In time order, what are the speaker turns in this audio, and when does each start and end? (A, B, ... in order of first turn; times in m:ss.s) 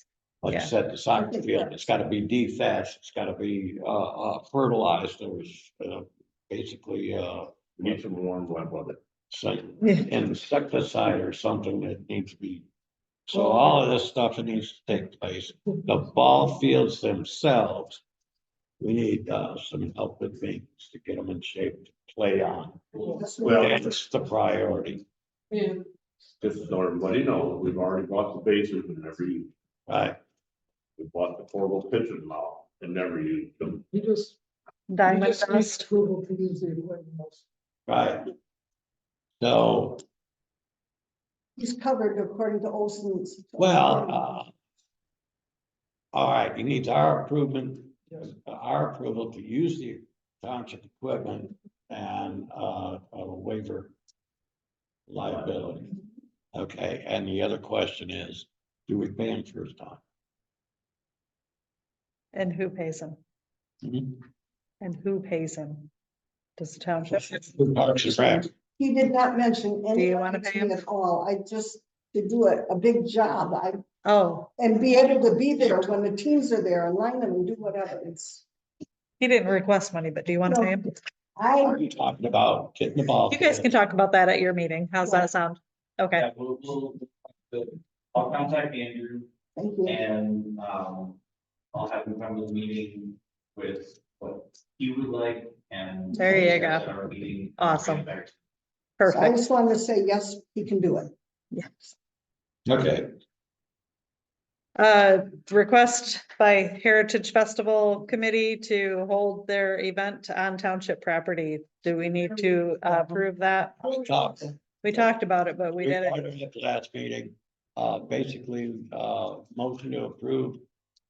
0:00.4-0:08.0 A
0:01.2-0:01.7 B
0:07.8-0:09.0 C
0:09.3-0:12.6 A
0:13.3-0:18.0 A
0:18.8-0:25.0 A
0:23.0-0:23.4 D
0:23.1-0:23.9 B
0:23.5-0:23.7 C
0:25.5-0:25.9 D
0:26.4-0:29.5 C
0:29.9-0:30.2 A
0:31.0-0:33.8 C
0:33.9-0:34.4 D
0:34.9-0:35.8 E
0:35.0-0:37.4 D
0:37.9-0:38.3 A
0:39.4-0:40.0 A
0:41.6-0:44.2 B
0:43.6-0:44.5 A
0:46.1-0:53.9 A
0:55.1-0:55.9 A
0:56.5-1:00.0 A
1:02.3-1:03.2 E
1:03.8-1:04.2 A
1:04.8-1:05.9 E
1:06.6-1:07.5 E
1:07.1-1:08.5 A
1:08.3-1:13.8 B
1:09.9-1:10.8 E
1:14.0-1:14.5 E
1:14.6-1:18.4 B
1:19.2-1:20.9 E
1:20.4-1:21.8 B
1:21.6-1:23.7 A
1:23.3-1:26.2 E
1:26.1-1:29.3 F
1:29.6-1:30.0 B
1:29.8-1:31.2 F
1:31.7-1:38.3 F
1:36.1-1:36.6 B
1:36.1-1:36.8 E
1:37.6-1:38.1 E
1:39.0-1:39.4 E
1:39.1-1:41.1 B
1:41.5-1:41.9 E
1:42.6-1:43.1 A
1:44.8-1:54.0 E
1:53.8-1:55.0 A
1:54.8-1:56.2 E
1:55.8-2:00.6 A